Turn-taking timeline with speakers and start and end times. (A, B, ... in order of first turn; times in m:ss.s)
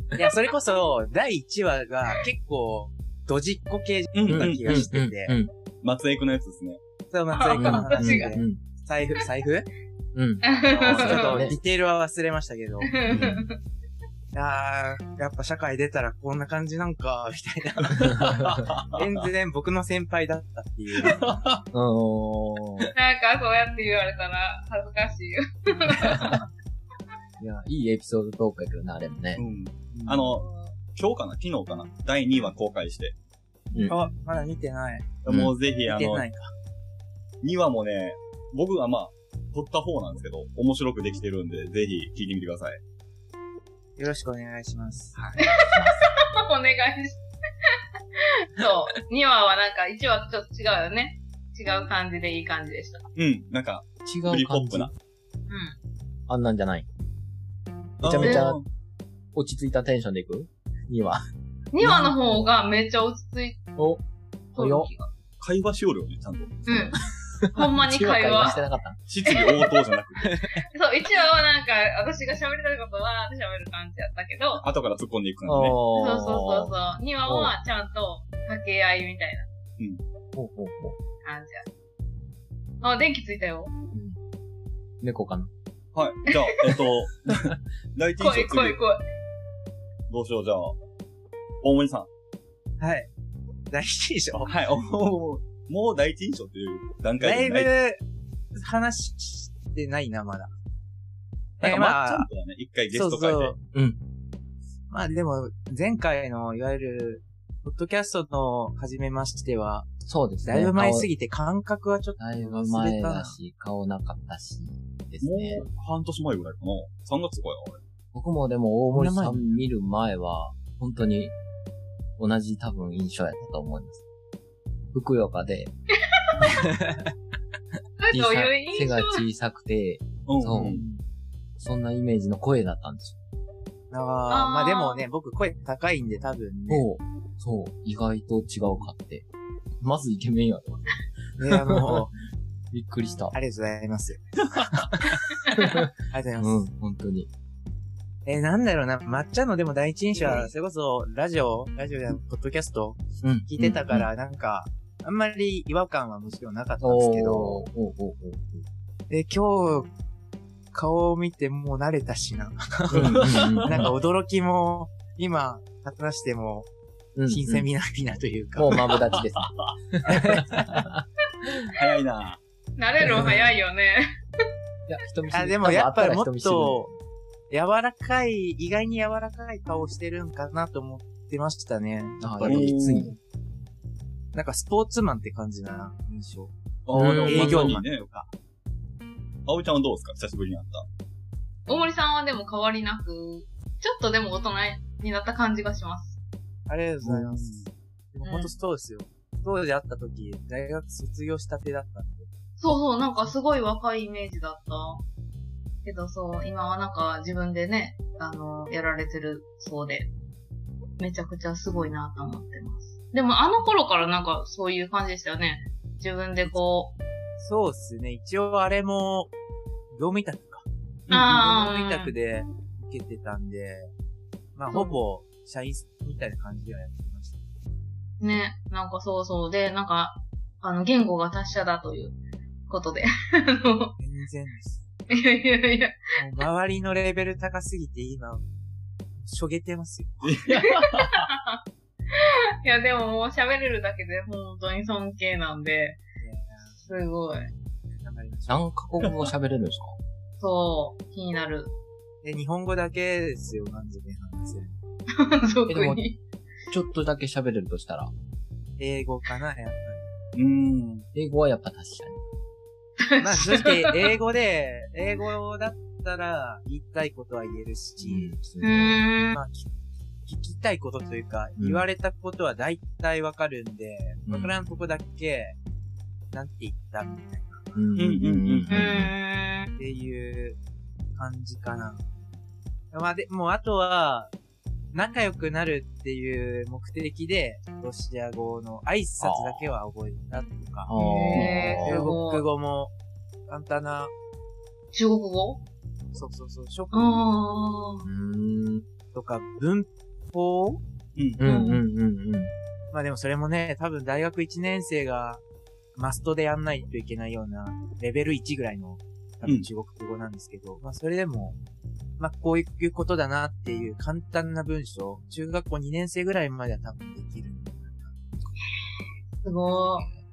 0:00.1-0:05.3 A
0:04.1-0:04.9 B
0:04.3-0:05.5 C
0:05.8-0:06.8 B
0:07.1-0:09.7 A
0:07.3-0:08.4 D
0:07.6-0:08.6 C
0:10.1-0:11.6 C
0:10.4-0:11.5 D
0:10.6-0:13.0 A
0:12.8-0:13.6 D
0:13.1-0:13.4 C
0:14.3-0:21.4 A
0:17.8-0:19.2 B
0:18.0-0:18.6 C
0:21.0-0:21.6 B
0:21.7-0:22.9 C
0:23.0-0:26.4 D
0:26.0-0:26.4 C
0:27.4-0:29.4 C
0:29.4-0:33.1 B
0:29.9-0:30.3 A
0:30.3-0:30.7 D
0:33.7-0:34.0 C
0:33.8-0:35.2 A
0:35.2-0:36.2 B
0:35.3-0:35.5 C
0:35.8-0:36.5 A
0:37.4-0:42.8 B
0:44.0-0:45.4 A
0:45.4-0:53.0 D
0:45.6-0:46.1 C
0:53.2-0:54.9 B
0:54.0-0:54.9 C
0:55.5-0:55.8 D
0:56.3-0:56.9 C
0:58.0-0:58.6 C
0:58.0-0:58.6 B
0:58.2-0:58.5 D
0:59.3-1:01.2 C
1:01.7-1:03.6 D
1:01.8-1:02.5 C
1:03.8-1:04.0 C
1:04.5-1:04.9 C
1:04.5-1:05.1 D
1:05.4-1:06.7 B
1:06.7-1:07.0 D
1:06.7-1:09.0 C
1:07.5-1:08.6 D
1:09.1-1:10.4 B
1:09.2-1:09.7 D
1:10.2-1:10.6 A
1:10.6-1:14.6 D
1:14.6-1:15.8 B
1:15.4-1:16.7 C
1:15.9-1:19.5 D
1:17.2-1:17.5 C
1:20.4-1:21.0 C
1:21.2-1:21.6 D
1:22.8-1:23.7 D
1:23.9-1:24.2 C
1:25.0-1:25.5 C
1:25.9-1:28.8 B
1:26.3-1:26.8 D
1:28.2-1:29.0 D
1:30.1-1:30.8 B
1:31.6-1:32.1 B
1:32.8-1:33.1 A
1:33.7-1:34.5 A
1:34.4-1:37.7 B
1:37.2-1:38.0 A
1:38.5-1:40.5 A
1:41.6-1:42.3 A
1:41.6-1:43.6 B
1:42.9-1:43.6 A
1:43.7-1:44.0 C
1:44.9-1:49.9 A
1:50.0-1:51.1 C
1:50.4-1:53.4 A
1:52.2-1:55.6 C
1:55.2-1:57.8 B
1:58.1-2:01.3 C
1:58.9-1:59.4 A
2:02.2-2:04.0 C
2:04.9-2:05.7 C
2:06.1-2:06.4 D
2:06.4-2:07.1 A
2:08.0-2:09.2 D
2:08.1-2:10.8 C
2:10.3-2:10.8 B
2:10.6-2:11.0 A
2:11.6-2:13.2 C
2:13.9-2:16.8 A
2:14.3-2:15.0 D
2:16.7-2:19.2 C
2:19.8-2:22.0 C
2:21.4-2:22.2 A
2:22.7-2:23.3 C
2:23.3-2:26.6 A
2:25.6-2:27.3 C
2:28.2-2:37.6 A
2:30.2-2:30.5 C
2:33.2-2:34.1 C
2:36.8-2:38.6 C
2:39.1-2:39.9 A
2:40.7-2:46.7 A
2:42.9-2:43.9 C
2:43.0-2:43.9 B
2:47.2-2:47.7 C
2:47.3-2:49.0 A
2:48.5-2:51.5 C
2:49.1-2:49.7 B
2:50.0-2:50.9 A
2:51.7-2:52.4 B
2:52.8-2:54.1 D
2:53.0-2:53.5 C
2:54.9-2:56.9 C
2:55.3-2:56.9 A
2:57.5-3:03.1 A
3:02.2-3:03.2 C
3:02.4-3:03.1 B
3:04.3-3:08.3 A
3:06.8-3:08.0 B
3:06.9-3:07.8 C
3:09.4-3:10.8 B
3:11.7-3:16.2 D
3:16.7-3:22.3 A
3:17.0-3:17.7 B
3:18.2-3:18.5 D
3:22.6-3:25.0 D
3:25.8-3:30.1 D
3:31.0-3:36.9 D
3:37.4-3:39.3 A
3:39.9-3:43.9 A
3:41.1-3:42.1 D
3:44.5-3:47.4 A
3:48.2-3:52.2 D
3:52.7-3:53.9 D
3:54.0-3:54.8 A
3:55.1-3:56.0 D
3:56.2-3:58.4 A
3:59.2-4:00.4 A
4:00.2-4:01.3 B
4:00.6-4:01.6 D
4:02.1-4:06.0 D
4:06.2-4:06.9 A
4:06.8-4:07.5 D
4:08.0-4:09.2 A
4:08.5-4:09.9 C
4:10.4-4:11.7 D
4:12.2-4:14.8 A
4:15.1-4:16.2 D
4:15.7-4:16.0 C
4:16.7-4:18.1 C
4:18.8-4:20.1 A
4:20.3-4:21.0 B
4:21.1-4:22.2 C
4:23.0-4:24.0 D
4:23.2-4:28.3 A
4:28.0-4:29.0 C
4:28.6-4:29.4 D
4:29.3-4:35.6 A
4:31.6-4:31.8 C
4:34.3-4:34.6 C
4:36.3-4:37.7 A
4:37.7-4:39.1 C
4:38.0-4:38.7 B
4:38.7-4:39.7 D
4:39.8-4:40.6 A
4:41.2-4:42.1 A
4:42.9-4:44.3 A
4:44.9-4:52.9 A
4:49.2-4:49.7 C
4:50.9-4:52.1 C
4:50.9-4:52.4 D
4:53.5-4:54.1 A
4:54.9-4:55.6 D
4:56.1-4:57.3 A
4:56.9-4:58.0 D
4:58.0-4:58.9 C
4:59.1-5:00.8 A
5:01.2-5:01.4 B
5:01.4-5:02.5 C
5:01.4-5:01.8 D
5:02.9-5:05.4 A
5:05.9-5:11.6 A
5:12.2-5:18.2 A
5:19.4-5:20.1 D